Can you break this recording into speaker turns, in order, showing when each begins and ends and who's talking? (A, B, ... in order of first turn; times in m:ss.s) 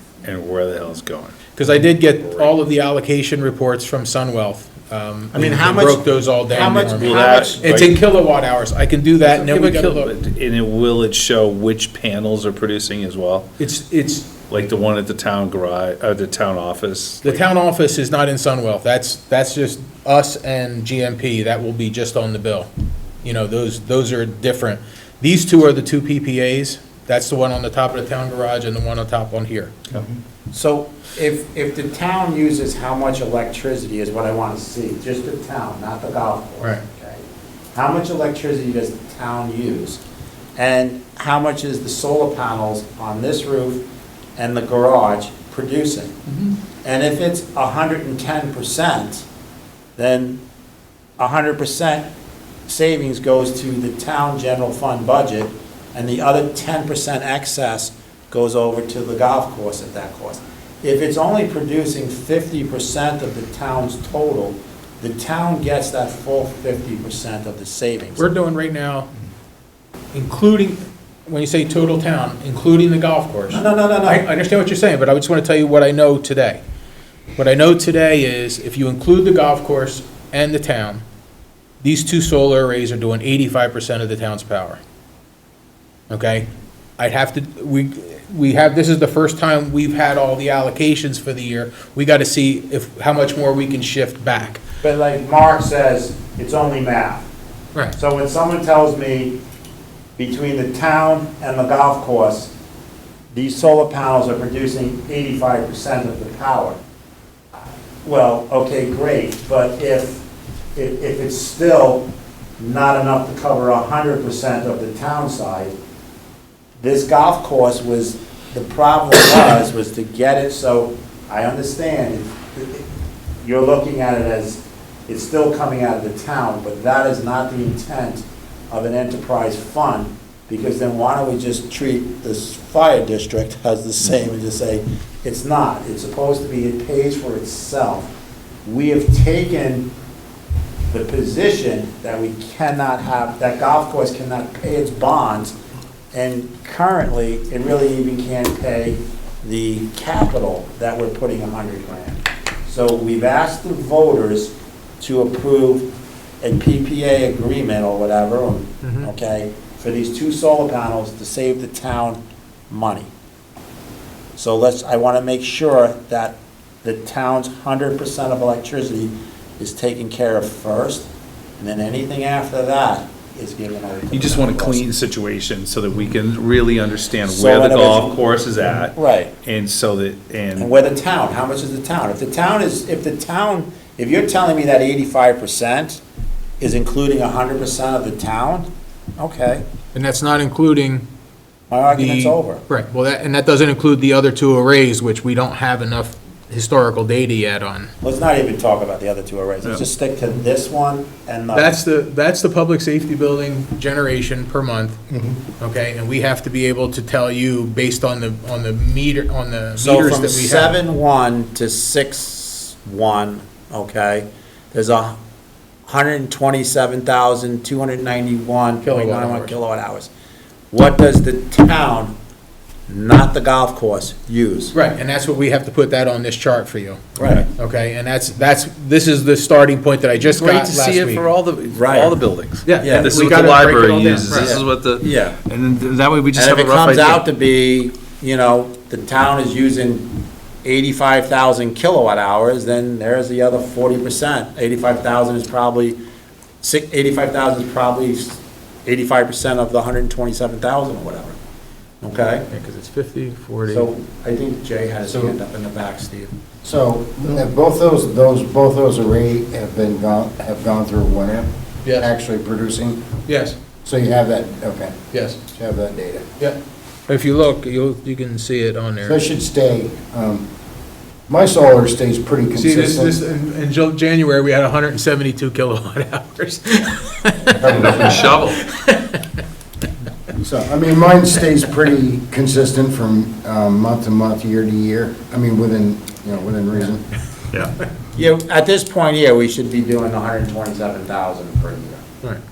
0:00.2-0:01.6 A
0:01.5-0:10.1 B
0:05.3-0:07.6 C
0:06.6-0:08.0 A
0:09.2-0:13.5 A
0:13.6-0:14.3 B
0:14.5-0:17.4 A
0:17.2-0:22.7 B
0:23.2-0:29.8 B
0:30.5-0:40.0 C
0:40.6-0:43.8 C
0:44.4-0:46.2 C
0:46.8-0:49.2 C
0:50.0-0:50.4 C
0:51.2-0:52.1 C
0:52.7-1:08.2 C
1:08.2-1:09.1 B
1:10.1-1:16.6 B
1:13.5-1:14.2 C
1:17.4-1:21.0 B
1:21.8-1:24.8 B
1:26.1-1:34.6 B
1:34.8-1:37.3 C
1:37.9-1:39.4 C
1:40.2-1:42.5 C
1:43.3-1:46.8 C
1:48.0-1:52.1 C
1:52.6-1:55.7 C
1:56.8-2:02.8 C
2:03.4-2:18.1 C
2:18.6-2:19.9 C
2:20.9-2:25.6 C
2:26.1-2:35.9 C
2:36.4-2:43.1 C
2:38.8-2:39.1 B
2:44.4-2:51.1 C
2:51.6-2:54.9 C
2:54.1-3:00.7 A
2:57.2-2:58.2 C
2:58.9-2:59.3 C
3:00.6-3:06.0 C
3:06.6-3:09.6 C
3:09.9-3:11.0 B
3:11.7-3:12.6 C
3:11.9-3:17.9 B
3:18.0-3:21.7 C
3:21.5-3:25.0 B
3:25.6-3:30.8 B
3:29.8-3:35.2 C
3:35.9-3:40.1 C
3:38.8-3:39.6 B
3:40.7-3:42.1 C
3:42.9-3:44.7 C
3:44.7-3:51.2 B
3:47.2-3:47.5 C
3:50.2-3:57.2 A
3:51.7-3:52.2 C
3:52.6-3:54.6 B
3:52.8-3:53.2 C
3:54.3-3:55.4 C
3:56.3-4:06.0 C
4:06.6-4:11.4 C
4:12.0-4:12.5 C
4:12.5-4:13.9 B
4:13.7-4:16.3 C
4:15.1-4:15.4 D
4:16.6-4:21.5 D
4:21.8-4:22.1 B
4:22.0-4:23.1 D
4:23.2-4:23.6 B
4:23.8-4:26.2 D
4:25.1-4:25.4 B
4:26.4-4:29.2 B
4:29.0-4:30.4 D
4:31.3-4:33.2 D
4:32.5-4:39.3 B
4:37.6-4:38.3 D
4:37.6-4:38.6 A
4:40.4-4:47.2 D
4:48.1-4:52.2 C